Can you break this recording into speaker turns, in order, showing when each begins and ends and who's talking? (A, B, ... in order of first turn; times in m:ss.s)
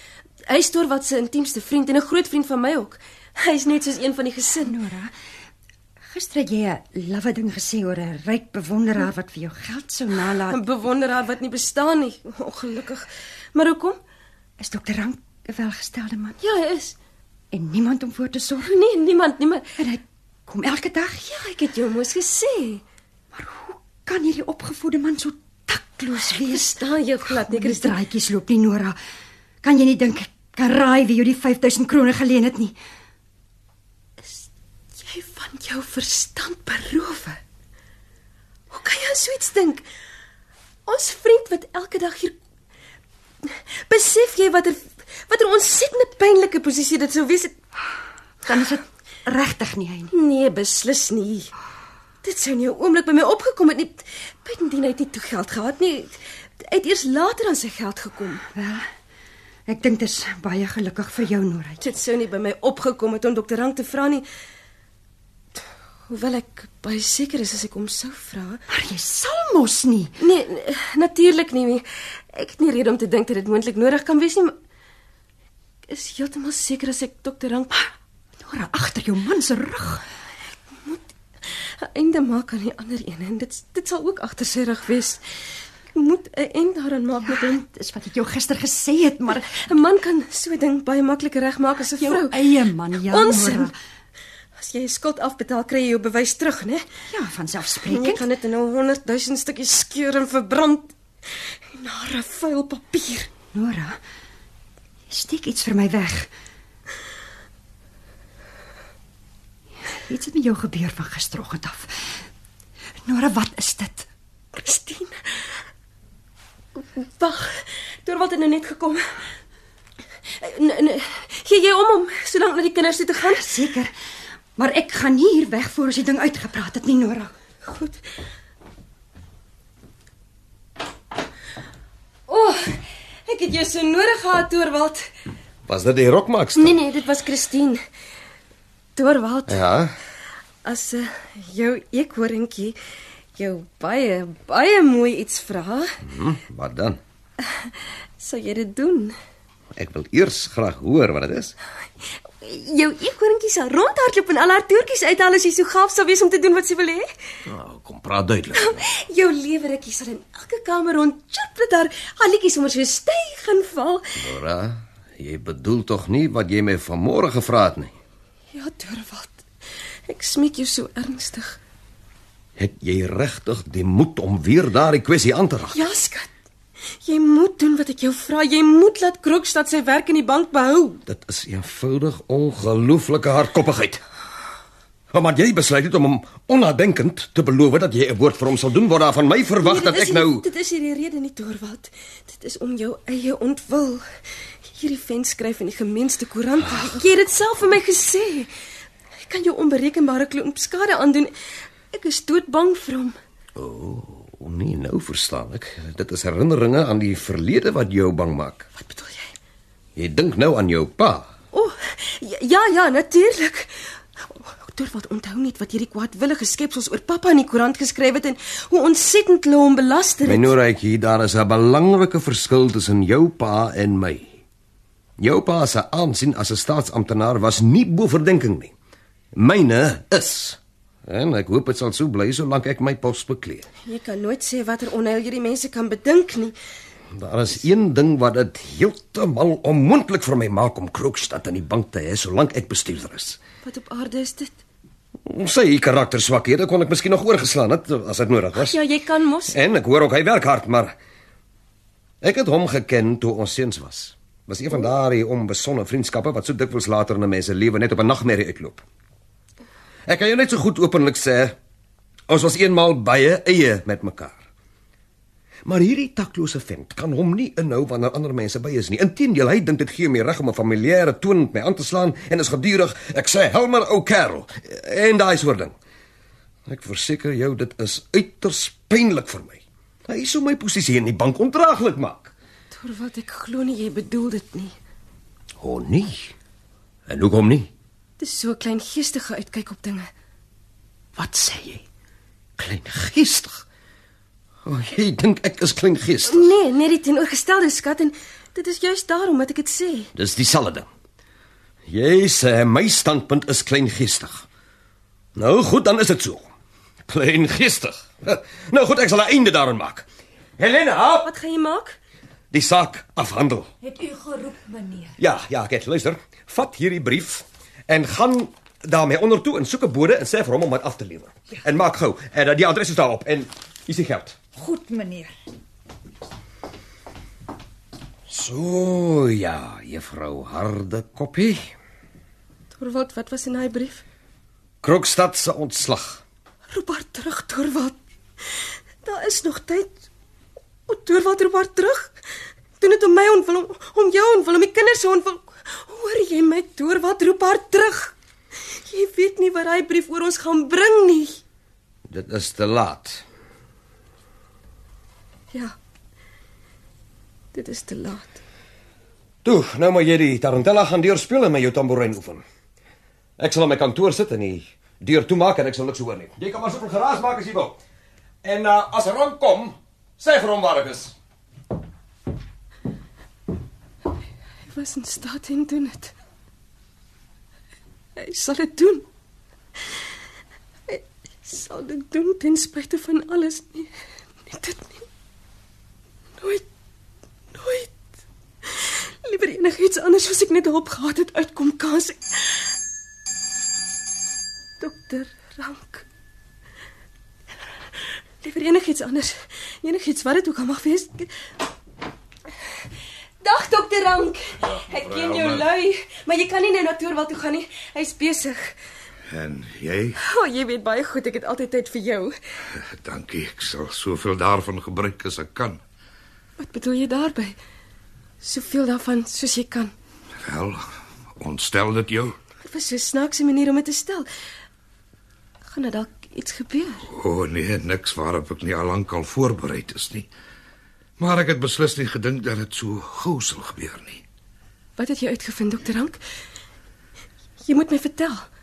0:00.4-0:04.8 A
0:04.6-0:05.1 B
0:06.1-0:10.6 B
0:10.5-0:14.0 A
0:14.6-0:16.4 B
0:16.4-0:16.9 A
0:17.5-0:18.8 B
0:18.6-0:19.7 A
0:19.8-0:21.3 B
0:21.2-0:22.8 A
0:23.3-0:29.0 B
0:26.3-0:28.0 A
0:29.6-0:32.8 B
0:35.0-0:37.4 A
0:38.7-0:39.8 A
0:40.9-0:42.4 A
0:43.4-0:47.6 A
0:48.4-0:50.1 B
0:50.1-0:51.5 A
0:52.2-0:58.4 A
0:58.5-0:58.9 B
0:59.7-1:01.8 B
1:01.8-1:04.2 A
1:06.1-1:08.6 A
1:08.7-1:10.1 B
1:10.2-1:14.5 A
1:15.9-1:17.8 A
1:18.4-1:20.0 B
1:20.8-1:25.2 A
1:25.9-1:27.6 A
1:27.2-1:29.6 B
1:29.5-1:32.4 A
1:32.0-1:33.8 B
1:33.1-1:33.7 A
1:34.6-1:36.8 A
1:37.1-1:38.3 B
1:37.8-1:40.9 A
1:41.7-1:43.3 A
1:43.5-1:44.0 B
1:45.1-1:46.3 B
1:50.1-1:52.0 B
1:53.0-1:54.1 B
1:54.5-1:55.5 A
1:56.8-1:59.1 A
2:00.3-2:03.5 A
2:03.2-2:03.9 B
2:04.6-2:07.3 B
2:07.6-2:08.0 A
2:12.3-2:15.1 A
2:15.7-2:16.8 C
2:16.6-2:17.8 A
2:19.0-2:19.6 A
2:19.5-2:19.9 C
2:20.6-2:22.8 A
2:23.4-2:25.9 A
2:26.0-2:27.0 C
2:27.4-2:29.2 A
2:29.8-2:31.5 C
2:32.2-2:37.1 A
2:37.4-2:38.8 C
2:38.5-2:44.2 A
2:44.2-2:47.9 C
2:48.5-2:49.4 A
2:50.1-2:51.6 A
2:52.6-2:55.8 C
2:55.7-2:56.3 A
2:57.0-3:01.0 A
3:01.1-3:04.0 C
3:05.1-3:10.4 C
3:09.6-3:14.0 A
3:14.7-3:18.5 A
3:19.2-3:21.3 A
3:21.9-3:23.2 A
3:23.6-3:28.7 C
3:28.8-3:29.3 A
3:30.0-3:31.3 C
3:31.5-3:40.5 A
3:40.2-3:44.4 C
3:45.2-3:48.7 C
3:49.3-3:53.7 C
3:53.8-3:56.5 A
3:57.1-4:03.4 C
4:03.6-4:04.6 A
4:05.2-4:08.8 C
4:08.6-4:09.6 A
4:09.5-4:10.9 C
4:12.2-4:18.8 C
4:20.1-4:21.5 C
4:22.3-4:24.4 C
4:25.6-4:35.7 C
4:36.7-4:42.3 C
4:42.7-4:44.7 A
4:45.6-4:46.3 C
4:47.1-4:47.7 C
4:48.2-4:50.1 A
4:51.2-4:51.8 C
4:52.6-4:53.6 C
4:54.6-4:56.5 C
4:56.3-5:00.1 A
5:00.1-5:00.9 C
5:01.9-5:04.4 C
5:05.3-5:06.5 C
5:07.1-5:10.0 C
5:10.6-5:11.3 C
5:11.2-5:12.0 A
5:12.5-5:13.7 C
5:13.8-5:15.2 D
5:15.2-5:24.4 C
5:24.5-5:25.3 D
5:28.3-5:31.7 C
5:32.8-5:34.0 A
5:34.8-5:36.2 C
5:36.7-5:38.0 A
5:39.0-5:39.9 A
5:40.9-5:42.1 A
5:42.8-5:48.1 A
5:48.6-5:51.4 A
5:52.1-5:53.2 C
5:57.5-5:58.4 A
5:59.4-6:02.4 C
6:03.4-6:07.8 C
6:08.4-6:11.1 C
6:14.7-6:16.1 A
6:18.2-6:19.0 A
6:20.9-6:23.9 A
6:24.4-6:25.0 A
6:27.5-6:27.9 A
6:28.6-6:32.6 A
6:34.8-6:36.0 A
6:38.4-6:41.3 A
6:43.4-6:48.7 A
6:44.7-6:45.7 E
6:49.3-6:50.2 E
6:50.2-6:52.4 A
6:52.8-6:55.8 E
6:56.6-6:57.6 A
6:58.4-6:59.9 A
7:00.4-7:00.9 E
7:01.4-7:02.4 E
7:02.6-7:04.3 A
7:05.7-7:07.1 A
7:07.1-7:10.3 E
7:11.2-7:14.2 E
7:15.0-7:16.2 A
7:17.6-7:18.5 A